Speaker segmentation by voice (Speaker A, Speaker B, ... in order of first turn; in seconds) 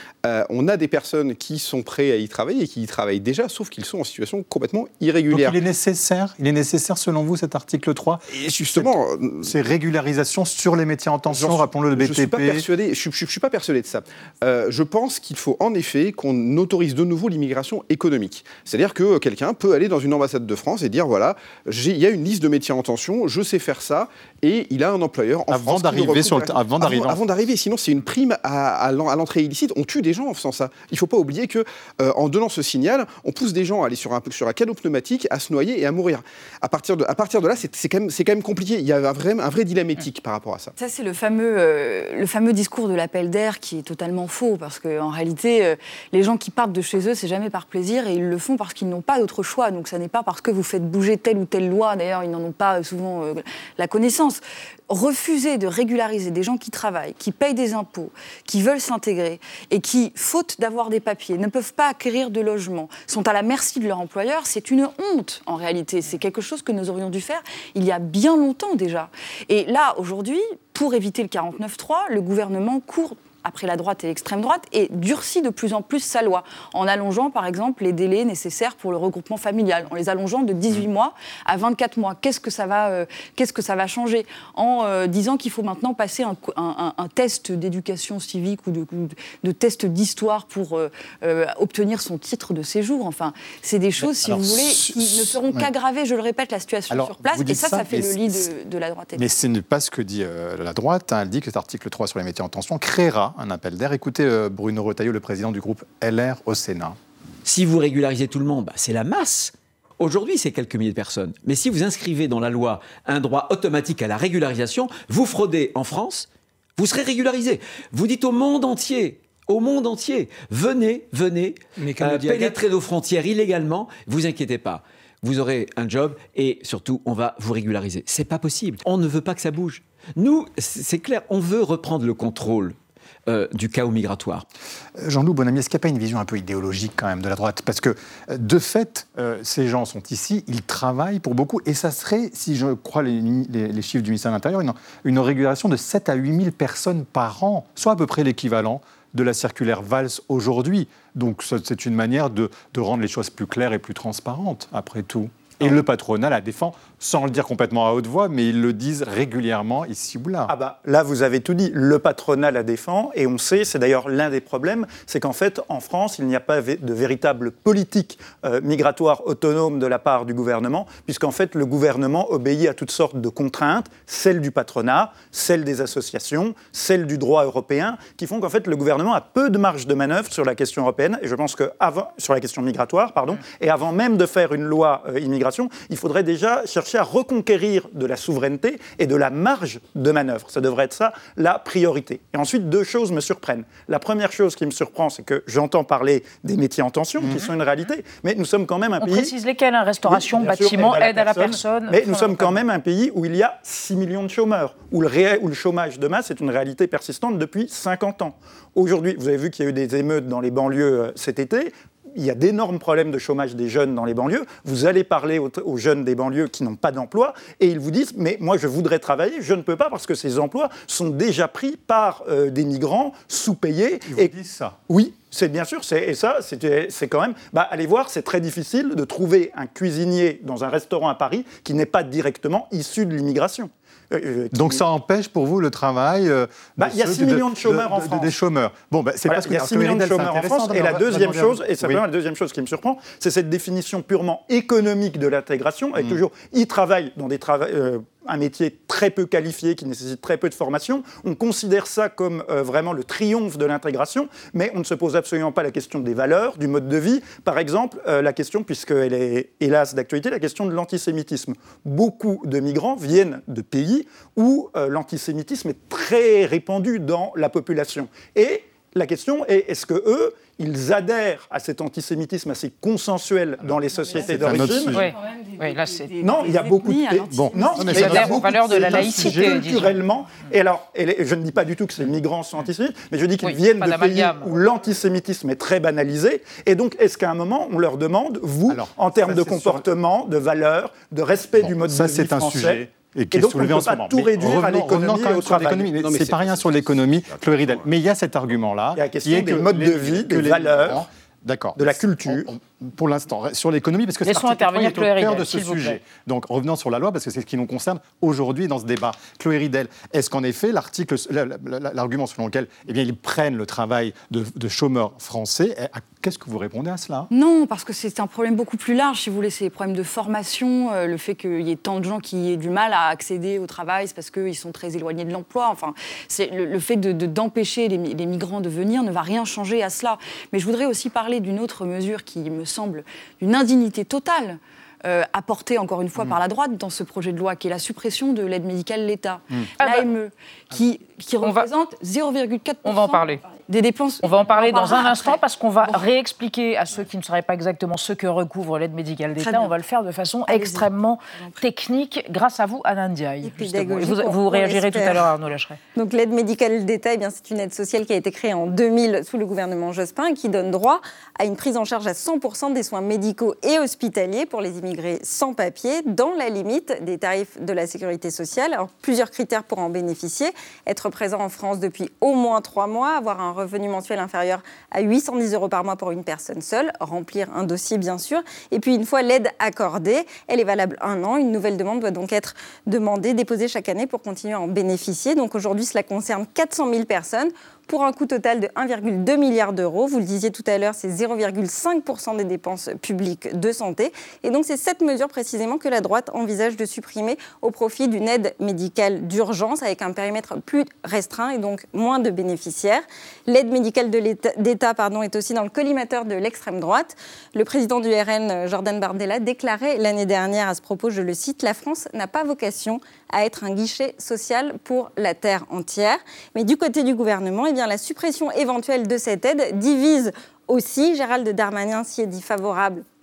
Speaker A: 0.2-5.6, 8.3-9.5, 11.3-40.7, 296.0-297.9
Speaker B: 5.3-12.7, 25.5-27.2, 94.0-95.7, 96.9-98.5, 99.2-107.0, 135.0-160.5, 224.1-224.8, 234.5-242.0, 274.1-275.1, 277.3-279.8, 288.7-289.9, 291.6-317.3
Speaker C: 40.8-99.2, 275.2-278.3, 317.3-346.1, 349.4-349.8, 350.5-351.6
Speaker D: 107.5-134.5
Speaker E: 160.5-199.3, 200.1-224.3, 224.9-234.8, 236.8-238.3, 239.3-275.0, 276.2-295.9, 298.9-301.1, 301.8-302.5
Speaker F: 199.0-202.6, 274.9-276.1, 277.9-279.9, 283.4-284.5, 304.2-306.0, 339.8-340.1, 341.4-341.7, 342.8-343.4, 344.2-355.8
Speaker G: 353.4-355.3, 356.0-423.0